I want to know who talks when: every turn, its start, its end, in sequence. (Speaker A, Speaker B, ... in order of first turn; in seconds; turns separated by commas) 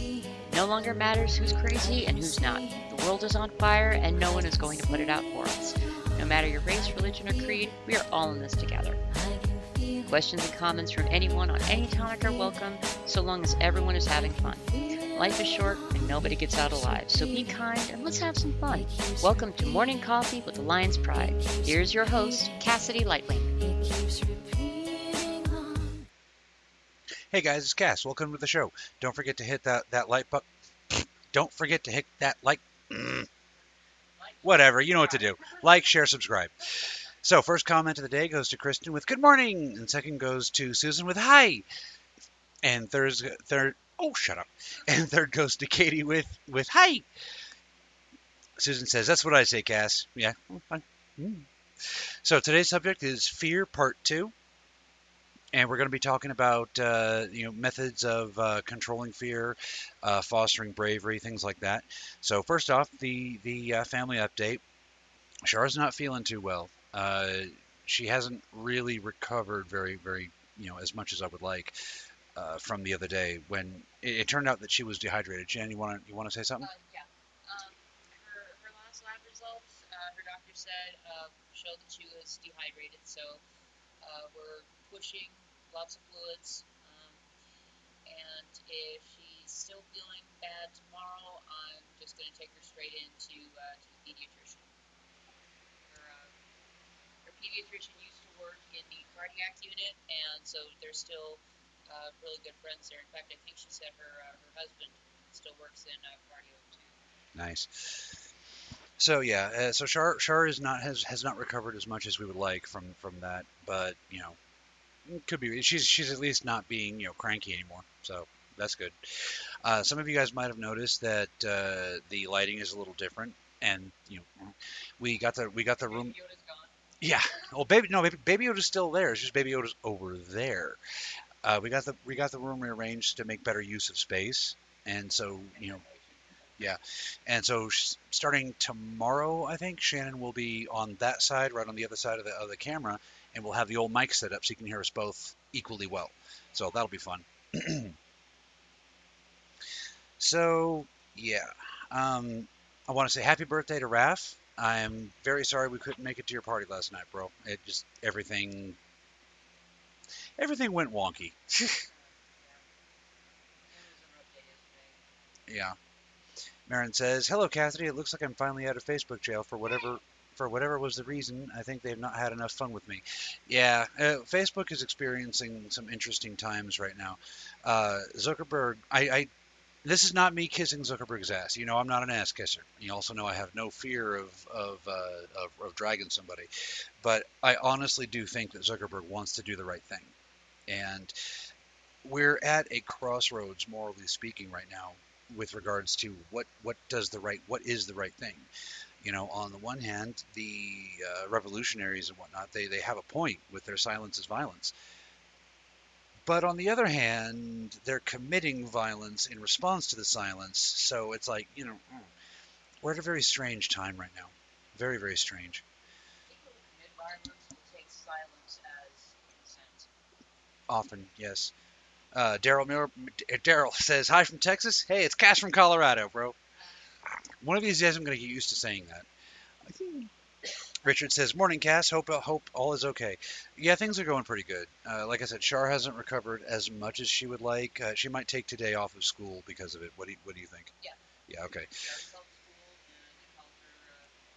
Speaker A: 0.4-9.0, Speaker A: 10.0-23.7, Speaker B: 27.3-33.3, Speaker C: 34.2-35.7, Speaker B: 34.4-36.7, Speaker B: 37.2-41.6, Speaker B: 42.6-47.1, Speaker B: 48.6-54.3, Speaker B: 55.5-64.6, Speaker B: 65.4-76.7, Speaker C: 76.6-83.4, Speaker C: 84.0-87.2, Speaker C: 88.1-94.7, Speaker C: 95.8-96.3, Speaker C: 97.2-107.0, Speaker B: 107.3-108.2, Speaker B: 109.0-114.4, Speaker B: 115.1-126.2, Speaker C: 125.7-126.8, Speaker B: 127.0-130.8, Speaker B: 131.4-135.8, Speaker C: 135.5-136.7, Speaker B: 136.6-148.0, Speaker B: 150.2-158.8, Speaker B: 160.4-161.8, Speaker C: 161.8-162.7, Speaker C: 163.7-165.3, Speaker B: 165.5-165.8, Speaker B: 166.7-179.3, Speaker B: 179.8-186.5, Speaker B: 187.0-190.1, Speaker B: 190.7-191.1, Speaker B: 192.0-198.5, Speaker B: 199.0-204.7, Speaker B: 206.2-212.1, Speaker B: 212.8-215.6, Speaker C: 216.3-219.9, Speaker B: 220.7-221.5, Speaker B: 222.1-226.4, Speaker B: 227.4-229.1, Speaker B: 229.6-230.1, Speaker B: 230.8-240.7, Speaker B: 241.3-241.8, Speaker C: 241.7-244.1